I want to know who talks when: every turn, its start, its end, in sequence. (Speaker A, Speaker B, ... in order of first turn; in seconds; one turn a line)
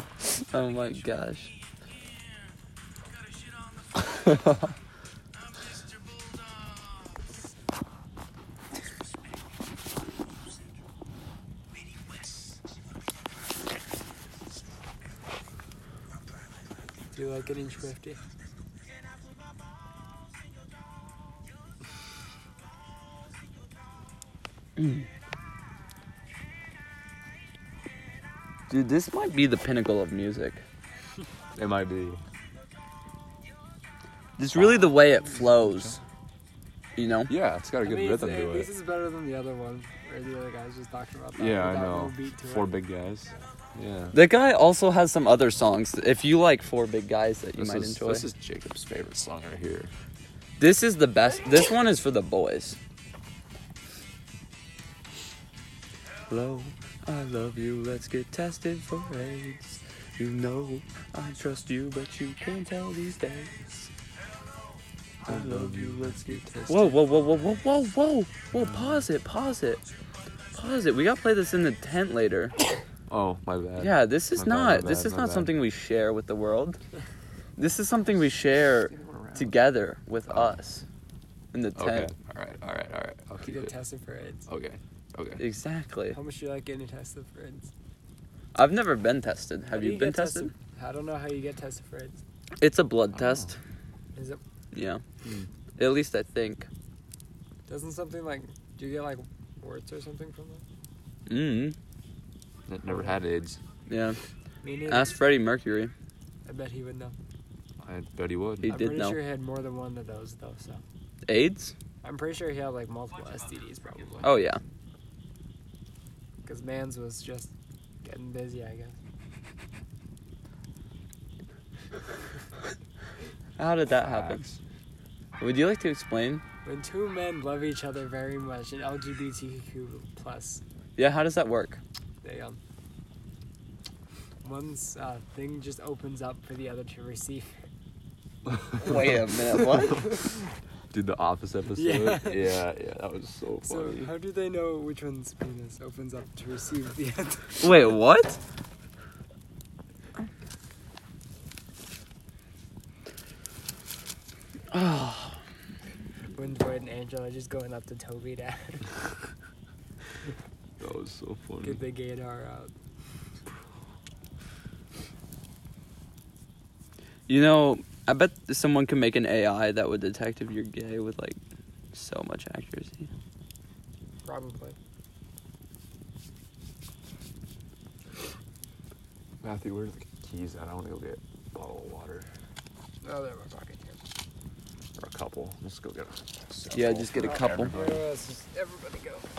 Speaker A: 0.5-1.5
Speaker B: 17.1-18.2
Speaker A: 24.8-25.1
Speaker A: 28.7-30.6
Speaker C: 31.5-32.2
Speaker A: 34.4-36.0
Speaker C: 34.5-35.9
Speaker A: 37.0-37.3
Speaker C: 37.3-38.7
Speaker B: 37.8-42.8
Speaker C: 41.3-44.1
Speaker A: 44.1-48.3
Speaker C: 47.6-49.9
Speaker A: 50.6-52.8
Speaker A: 56.3-63.5
Speaker C: 65.2-66.5
Speaker A: 65.2-69.8
Speaker B: 65.3-67.4
Speaker C: 68.5-69.0
Speaker A: 70.5-72.6
Speaker C: 73.1-75.5
Speaker A: 73.8-76.8
Speaker A: 77.6-80.8
Speaker C: 78.9-79.6
Speaker C: 80.3-80.6
Speaker A: 81.5-82.1
Speaker C: 81.8-83.7
Speaker B: 83.4-84.4
Speaker C: 84.5-85.4
Speaker A: 85.4-86.2
Speaker B: 86.1-87.7
Speaker A: 88.5-90.5
Speaker B: 89.7-92.2
Speaker A: 92.6-93.5
Speaker C: 93.1-93.5
Speaker B: 94.1-94.4
Speaker A: 94.7-95.0
Speaker C: 95.2-95.5
Speaker A: 95.8-96.7
Speaker B: 97.7-100.6
Speaker A: 101.3-101.8
Speaker C: 102.7-103.6
Speaker B: 102.8-103.2
Speaker A: 103.9-104.2
Speaker B: 104.6-105.2
Speaker A: 104.9-105.9
Speaker B: 106.5-107.1
Speaker C: 107.8-108.7
Speaker A: 108.6-109.2
Speaker B: 108.7-110.8
Speaker A: 111.2-111.7
Speaker B: 112.0-114.4
Speaker A: 114.2-114.6
Speaker B: 116.4-117.5
Speaker B: 118.0-119.0
Speaker A: 123.6-124.5
Speaker C: 124.0-124.6
Speaker A: 125.4-126.4
Speaker B: 126.6-130.6
Speaker A: 130.9-131.8
Speaker B: 132.2-132.6
Speaker B: 134.4-137.5
Speaker A: 138.8-140.2
Speaker C: 140.9-144.1
Speaker B: 141.7-142.5
Speaker B: 143.7-147.7
Speaker A: 147.6-148.4
Speaker A: 154.7-155.4
Speaker B: 156.3-158.9
Speaker C: 160.8-161.8
Speaker B: 161.6-162.7
Speaker A: 167.3-171.4
Speaker A: 171.9-173.1
Speaker B: 174.2-174.8
Speaker C: 179.4-182.3
Speaker B: 183.0-184.0
Speaker C: 185.0-188.0
Speaker A: 186.7-187.7
Speaker B: 187.2-189.3